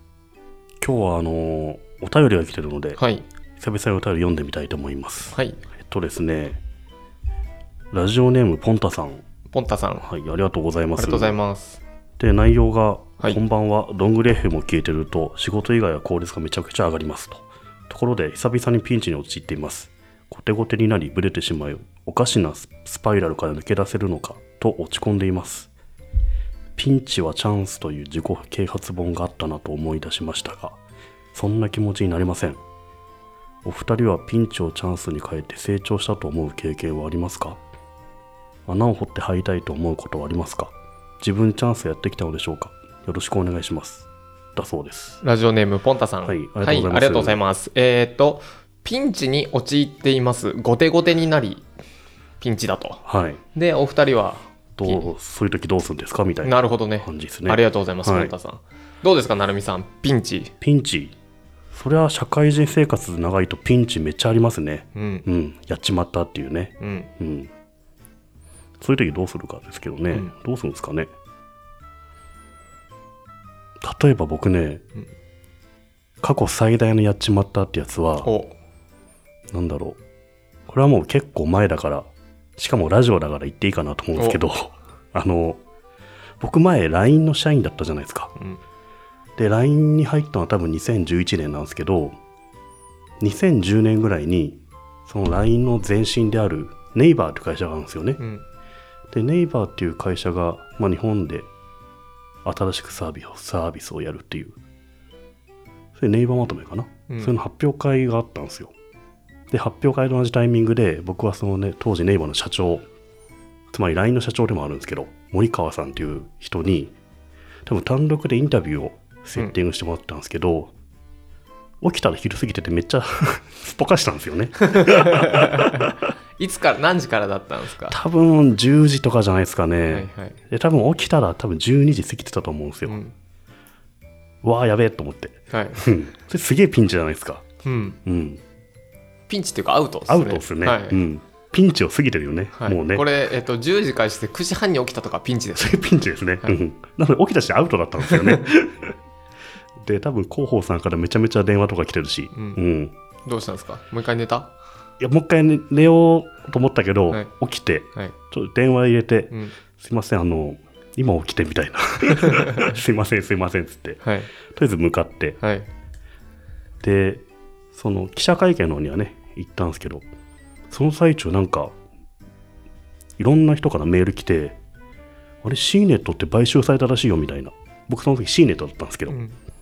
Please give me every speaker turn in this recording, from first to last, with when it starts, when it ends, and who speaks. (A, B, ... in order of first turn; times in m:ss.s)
0:00.8-0:03.0 A
0:03.0-0:03.2 B
0:03.6-0:06.6 A
0:05.3-0:05.6 B
0:07.9-0:09.2 A
0:09.5-0:10.0 B
0:10.0-0:11.3 A
0:11.0-0:11.8 B
0:12.2-0:25.7 A
0:26.8-0:30.8 A
0:31.3-0:32.6 A
0:33.6-0:37.6 A
0:38.7-0:45.2 A
0:45.2-0:51.6 B
0:46.2-0:47.4 A
0:52.4-0:53.0 B
0:53.0-0:53.4 A
0:53.5-0:55.1 B
0:54.8-0:58.3 A
0:56.4-1:00.5 B
1:00.6-1:01.1 A
1:01.7-1:07.5 A
1:04.9-1:05.2 B
1:06.8-1:07.1 B
1:08.8-1:11.1 A
1:13.8-1:14.8 A
1:16.2-1:18.3 A
1:18.2-1:18.5 B
1:19.5-1:20.0 A
1:20.7-1:25.6 A
1:26.4-1:28.3 A
1:29.4-1:32.2 A
1:33.2-1:38.2 A
1:38.2-1:38.4 B
1:39.1-1:41.5 A
1:42.4-1:44.6 A
1:46.0-1:48.7 A
1:49.5-1:52.8 A
1:53.7-1:56.9 A
1:57.6-2:00.7 A
2:01.8-2:05.9 A
2:04.8-2:05.4 B
2:06.4-2:08.0 B
2:07.9-2:13.0 A
2:09.9-2:10.4 B
2:12.8-2:13.1 B
2:14.4-2:17.4 A
2:15.5-2:15.8 B
2:17.6-2:18.0 B
2:18.0-2:18.4 A
2:19.3-2:21.0 B
2:20.1-2:23.0 A
2:22.5-2:25.8 B
2:25.5-2:28.9 A
2:28.0-2:28.4 B
2:29.8-2:32.9 A
2:33.2-2:34.5 B
2:35.0-2:45.4 A
2:39.3-2:39.6 B
2:44.0-2:44.3 B
2:45.4-2:45.7 B
2:46.8-2:50.0 A
2:50.7-2:51.7 A
2:53.2-2:54.6 A
2:55.4-2:59.2 A
2:59.1-2:59.4 B